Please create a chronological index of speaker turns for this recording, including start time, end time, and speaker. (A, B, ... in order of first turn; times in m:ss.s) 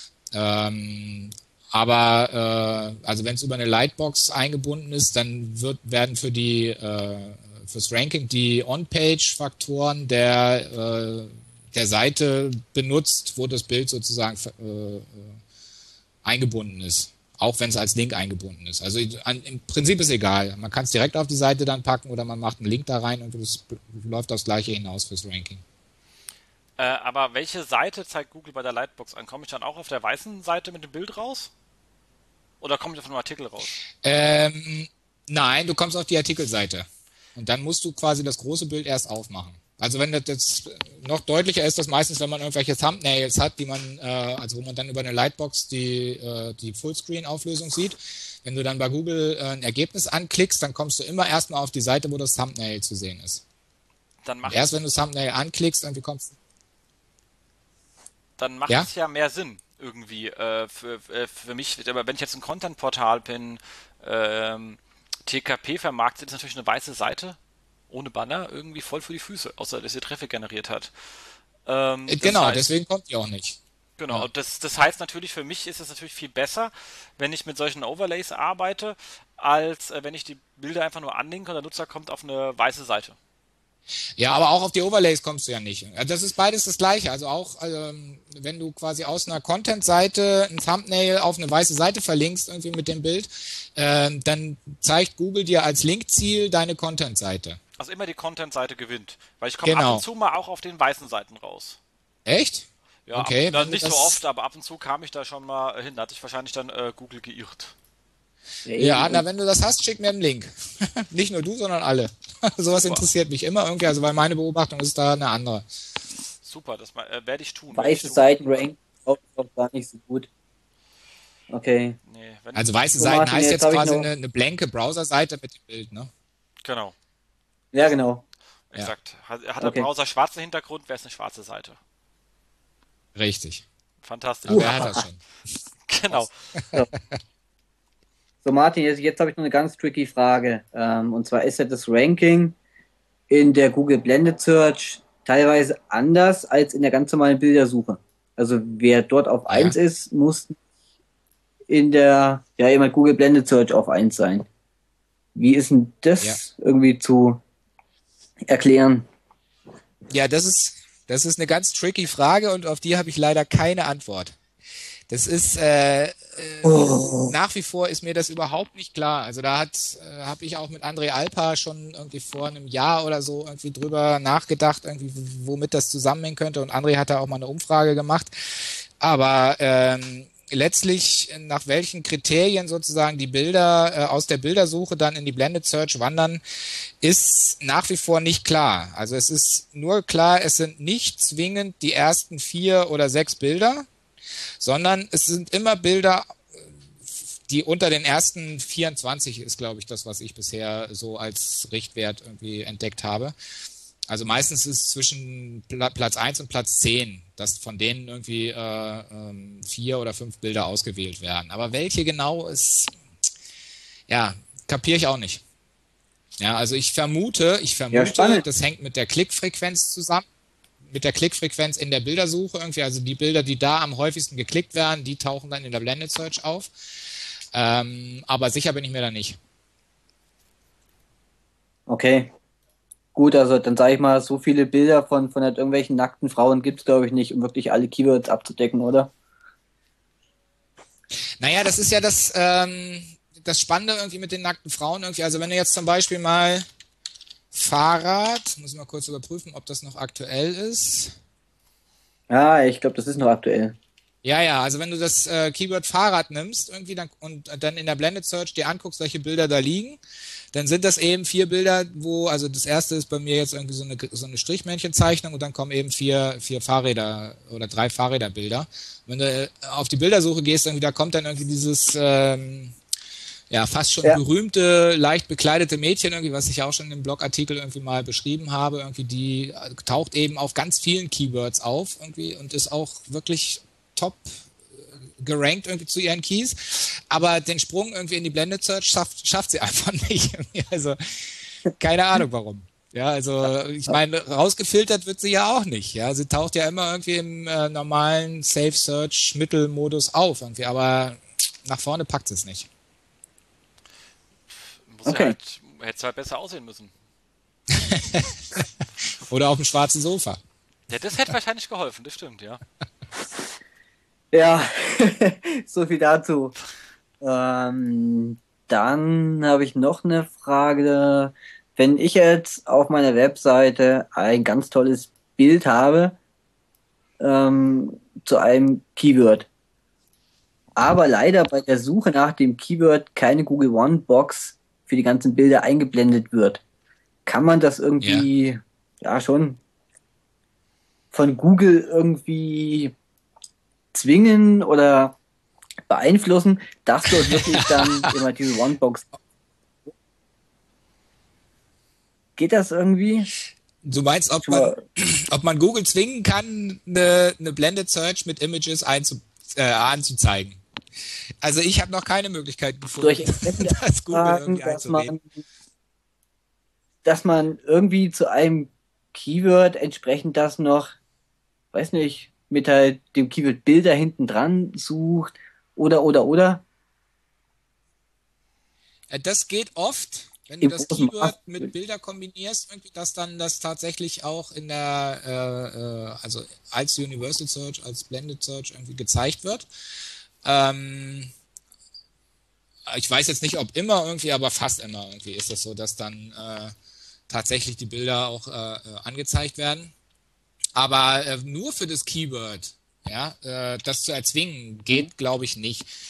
0:00.3-0:15.4 A
0:16.2-0:25.6 A
0:26.8-0:31.5 B
0:32.6-0:33.7 B
0:34.0-0:53.4 A
0:54.2-0:54.8 B
0:54.5-0:56.3 A
0:58.4-1:07.4 B
1:07.9-1:10.9 B
1:11.6-1:12.7 B
1:12.1-1:13.6 A
1:14.0-1:23.2 B
1:24.2-1:37.6 A
1:37.8-1:41.8 B
1:39.6-1:40.0 A
1:42.2-1:44.2 A
1:43.1-1:47.7 B
1:48.6-1:49.2 C
1:48.8-1:55.6 A
1:52.8-1:53.1 B
1:56.4-1:58.6 B
1:57.7-2:00.3 C
2:01.5-2:02.0 C
2:02.0-2:02.9 B
2:02.5-2:06.1 A
2:03.0-2:04.1 C
2:06.6-2:06.9 B
2:07.7-2:08.2 C
2:08.7-2:11.8 B
2:09.6-2:09.9 C
2:13.1-2:13.6 A
2:14.0-2:14.9 B
2:14.5-2:15.2 A
2:14.5-2:14.9 C
2:15.9-2:16.3 B
2:16.1-2:16.8 A
2:18.4-2:22.6 C
2:23.3-2:30.6 C
2:29.5-2:29.8 A
2:31.7-2:34.5 C
2:35.3-2:37.4 C
2:38.5-2:39.0 C
2:40.1-2:44.4 A
2:45.1-3:06.4 A
2:46.6-2:47.3 C
3:07.0-3:13.9 A
3:14.6-3:16.7 A
3:17.5-3:23.3 A
3:24.1-3:32.9 A
3:34.1-3:35.4 A
3:36.4-3:40.2 A
3:37.9-3:38.4 C
3:40.8-3:46.7 A
3:47.5-3:49.4 A
3:51.9-3:52.3 C
3:53.1-3:59.1 C
4:01.4-4:06.6 A
4:07.5-4:11.1 A
4:12.3-4:13.8 C
4:14.2-4:20.0 A
4:20.5-4:32.8 A
4:33.5-4:44.3 A
4:45.2-5:02.7 A
5:04.9-5:06.9 B
5:05.0-5:05.4 C
5:07.7-5:08.6 A
5:09.3-5:10.4 A
5:10.9-5:12.6 B
5:14.3-5:16.5 C
5:17.2-5:26.2 C
5:27.2-5:29.5 C
5:30.8-5:36.6 C
5:37.2-5:39.6 C
5:38.0-5:38.2 A
5:41.1-5:42.9 C
5:43.9-5:45.2 C
5:45.9-5:49.1 C
5:47.0-5:48.1 A
5:52.4-5:53.3 C
5:53.8-6:00.6 A
5:54.4-5:54.8 C
6:01.4-6:05.1 A
6:03.0-6:05.2 C
6:07.0-6:10.9 C
6:11.7-6:16.6 C
6:19.1-6:29.7 A
6:20.6-6:21.7 C
6:30.4-6:31.3 A
6:32.9-6:36.7 A
6:37.3-6:39.9 A
6:40.7-6:45.9 A